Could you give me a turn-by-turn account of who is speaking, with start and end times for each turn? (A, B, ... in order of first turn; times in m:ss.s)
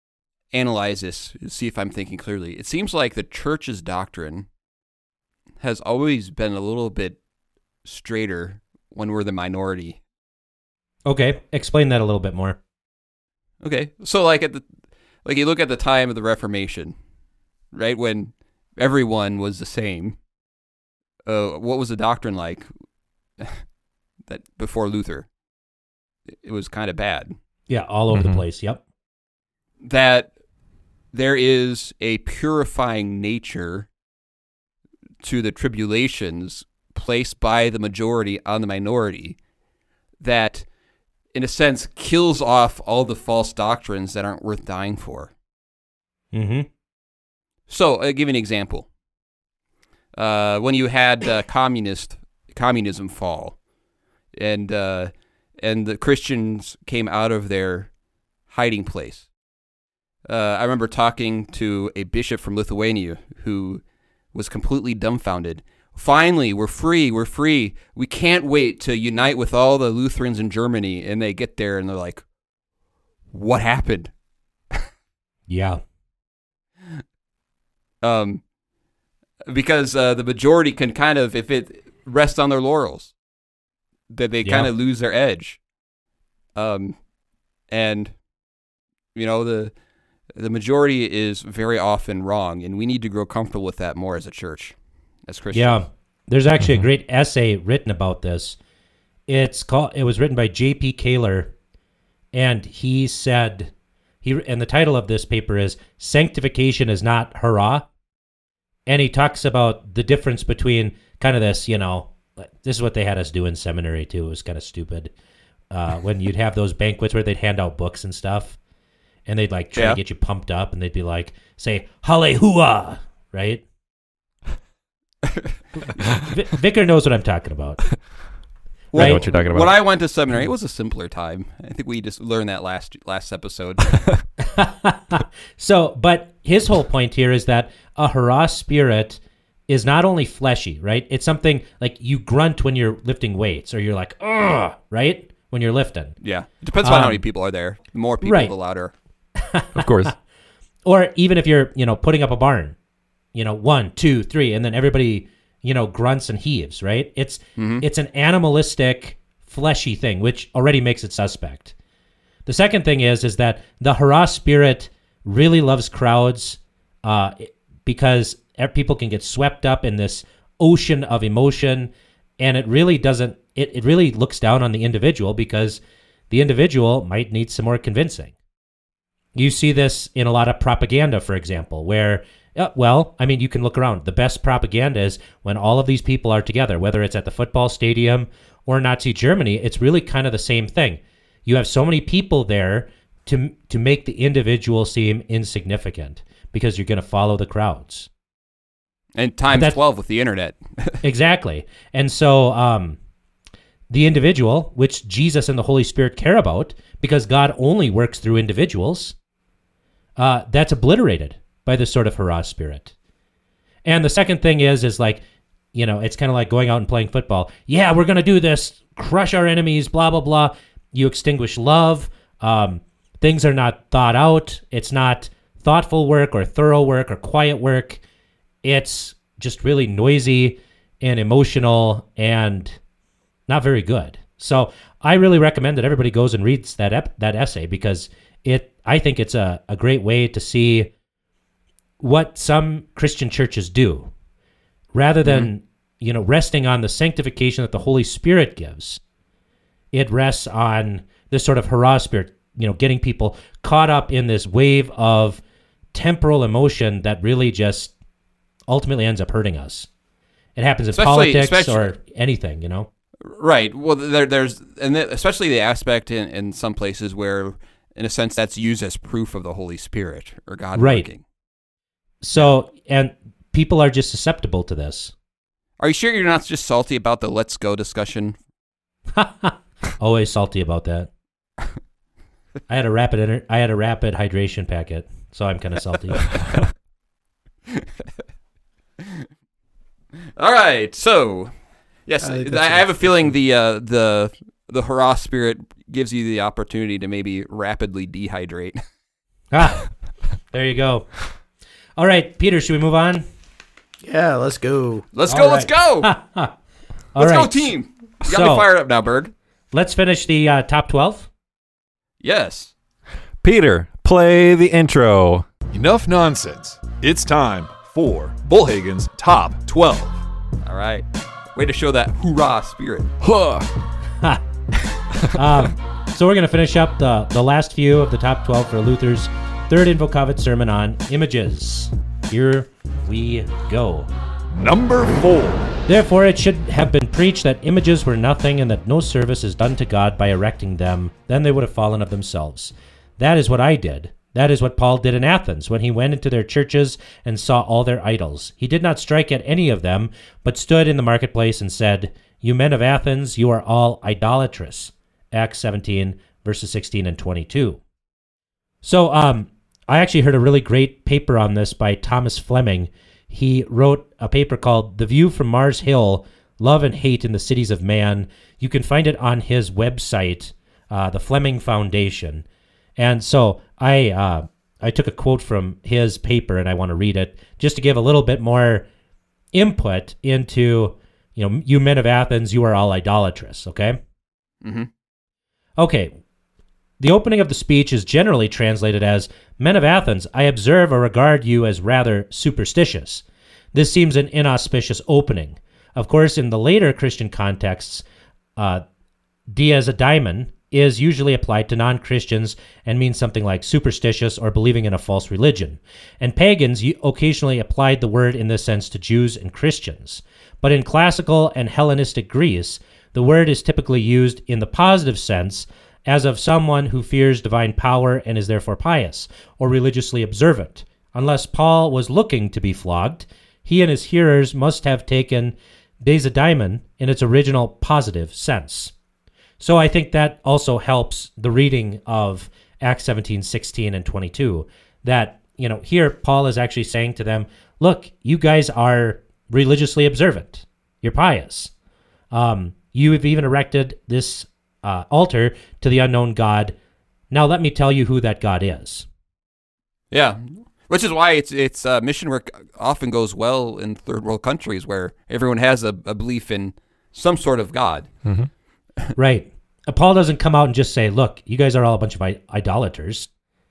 0:00.5-0:04.5 A
0:05.6-0:07.2 A
0:07.8-0:10.0 A
0:11.0-0:12.6 B
0:13.6-0:14.6 A
0:15.2-0:16.9 A
0:17.7-0:20.2 A
0:21.2-0:22.7 A
0:24.2-0:25.3 A
0:26.4-0:27.3 A
0:27.7-0:28.8 B
0:28.1-0:28.4 C
0:29.8-0:30.3 A
0:31.1-0:33.9 A
0:35.2-0:39.4 A
0:40.2-0:40.6 A
0:41.3-0:45.3 A
0:46.3-0:46.7 B
0:47.7-0:48.9 A
0:50.2-0:53.6 A
0:54.3-0:57.9 A
0:58.5-0:59.3 A
1:00.2-1:03.8 A
1:04.3-1:12.2 A
1:13.3-1:14.1 A
1:15.5-1:15.8 B
1:18.0-1:18.4 A
1:19.5-1:23.1 A
1:24.1-1:25.6 A
1:24.4-1:24.7 B
1:26.5-1:27.0 A
1:27.7-1:28.1 A
1:29.1-1:29.7 A
1:30.4-1:34.8 A
1:35.3-1:35.8 A
1:35.5-1:38.6 B
1:36.6-1:36.8 C
1:39.3-1:41.5 B
1:42.3-1:47.8 B
1:48.9-1:55.1 B
1:55.7-1:58.6 B
1:59.2-2:03.6 B
2:05.8-2:07.8 B
2:08.9-2:14.0 A
2:08.9-2:09.2 B
2:08.9-2:09.7 C
2:14.4-2:26.2 B
2:26.2-2:28.9 A
2:26.8-2:27.2 B
2:28.2-2:28.5 B
2:29.4-2:30.1 B
2:29.7-2:30.1 C
2:30.8-2:32.8 B
2:33.3-2:41.7 B
2:37.6-2:37.8 A
2:42.4-2:58.3 B
2:59.3-3:18.1 B
3:19.2-3:21.0 A
3:19.5-3:19.8 B
3:21.0-3:23.0 B
3:23.9-3:29.1 B
3:30.2-3:32.9 B
3:33.8-3:35.2 B
3:35.7-3:48.0 B
3:48.6-3:52.8 B
3:53.5-4:00.9 B
4:02.0-4:04.1 B
4:04.9-4:09.0 B
4:05.2-4:05.5 A
4:09.9-4:15.4 B
4:15.9-4:17.9 B
4:18.7-4:19.9 B
4:20.6-4:22.9 B
4:20.9-4:21.9 A
4:23.2-4:31.2 A
4:30.7-4:31.1 B
4:32.2-4:35.1 B
4:35.8-4:38.4 A
4:39.2-4:41.1 B
4:42.7-4:46.3 B
4:50.4-4:51.5 A
4:52.0-4:58.8 A
4:52.2-4:53.3 D
4:59.5-4:59.9 B
5:00.5-5:01.2 B
5:02.0-5:03.2 B
5:04.0-5:05.0 D
5:05.1-5:06.1 A
5:05.3-5:06.5 B
5:07.2-5:07.7 B
5:07.2-5:09.3 A
5:08.2-5:08.7 B
5:09.7-5:11.3 B
5:12.2-5:12.7 A
5:13.4-5:15.5 C
5:15.7-5:20.2 E
5:20.6-5:21.0 A
5:21.5-5:23.1 A
5:23.2-5:23.7 E
5:25.3-5:34.1 B
5:34.5-5:35.7 E
5:35.9-5:57.8 B
5:58.8-6:12.4 B
6:13.0-6:18.9 B
6:19.5-6:24.0 B
6:24.6-6:24.9 A
6:25.8-6:26.1 B
6:27.0-6:38.0 B
6:38.6-6:38.8 B
6:39.5-7:08.9 B
7:09.6-7:21.7 B
7:22.3-7:26.7 B
7:27.3-7:29.0 B
7:30.1-7:38.1 A
7:39.2-7:43.3 B